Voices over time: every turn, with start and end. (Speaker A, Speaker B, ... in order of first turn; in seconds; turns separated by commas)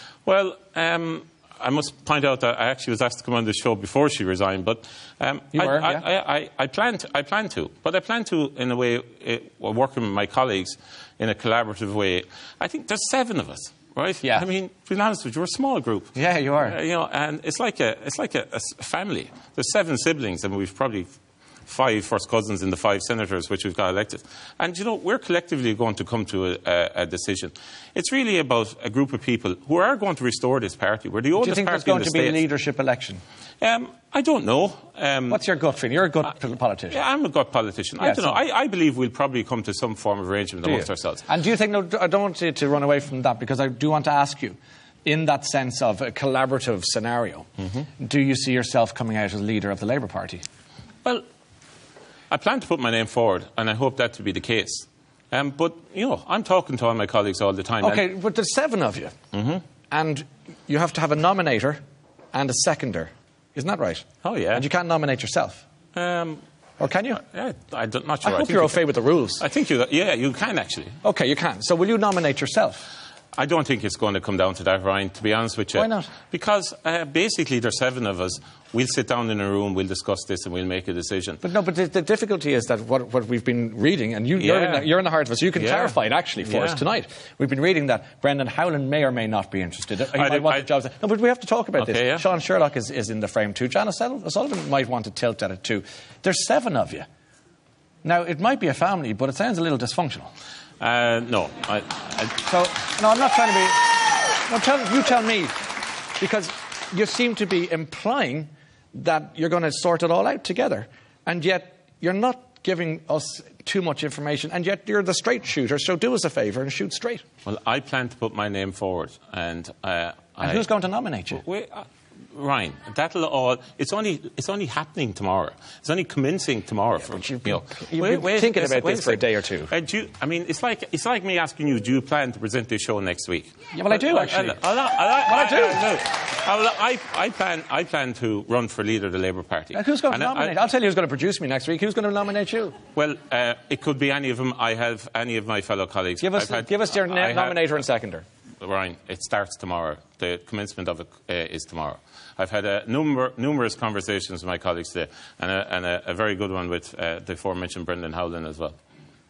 Speaker A: 0.2-21.1, Speaker B: 5.5-6.0, Speaker B: 16.1-16.8, Speaker A: 21.7-32.4, Speaker B: 31.4-33.2, Speaker A: 33.6-35.4, Speaker B: 35.3-37.0, Speaker A: 36.9-41.2, Speaker B: 38.0-38.4, Speaker B: 40.6-50.4, Speaker A: 52.3-58.0, Speaker B: 57.8-59.1, Speaker A: 59.3-59.6, Speaker B: 59.9-61.8, Speaker B: 62.3-65.6, Speaker A: 64.2-64.6, Speaker A: 65.9-66.4, Speaker B: 66.8-67.2, Speaker A: 67.2-68.8, Speaker B: 68.2-69.4, Speaker A: 69.4-71.0, Speaker B: 71.0-72.9, Speaker A: 73.3-81.4, Speaker B: 75.7-76.1, Speaker B: 81.4-97.1, Speaker A: 84.3-84.9, Speaker A: 85.5-86.8, Speaker A: 90.1-90.6, Speaker A: 91.8-92.2, Speaker B: 98.0-100.3, Speaker A: 100.8-102.4, Speaker B: 102.4-105.7, Speaker B: 106.2-117.2, Speaker A: 117.4-120.7, Speaker B: 120.4-121.4, Speaker A: 121.3-140.5, Speaker B: 127.1-129.7, Speaker B: 133.7-134.6, Speaker B: 135.2-135.9, Speaker B: 139.7-142.8, Speaker A: 142.9-147.6, Speaker B: 146.2-148.2, Speaker A: 148.6-158.8